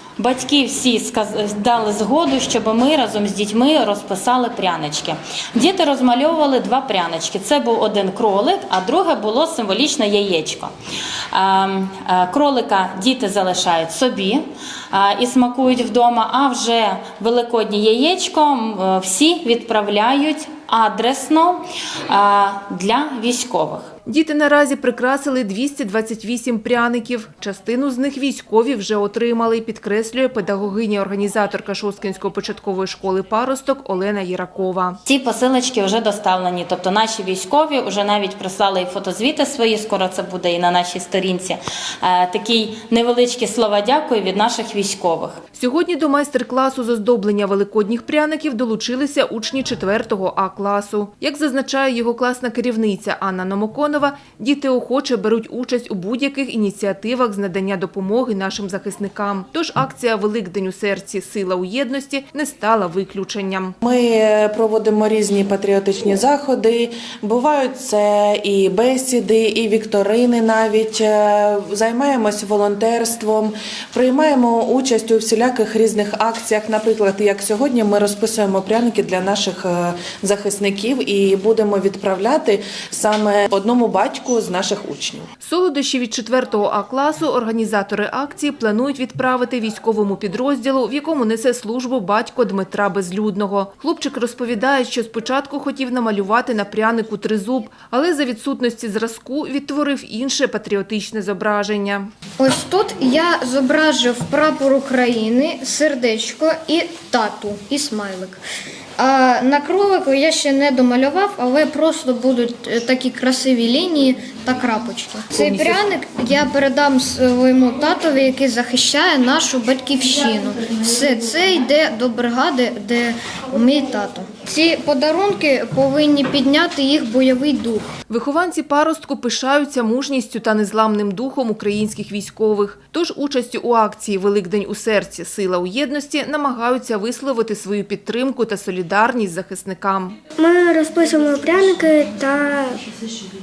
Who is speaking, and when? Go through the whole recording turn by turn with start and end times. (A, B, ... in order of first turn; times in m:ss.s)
0:00.2-0:10.7 A
0:11.3-0:23.9 A
0:24.1-0:35.0 B
0:35.1-0:45.4 A
0:45.6-1:03.8 B
1:03.8-1:25.3 C
1:25.4-1:42.1 B
1:42.4-1:48.4 D
1:49.0-2:07.8 D
2:08.1-2:20.2 B
2:20.4-2:22.8 E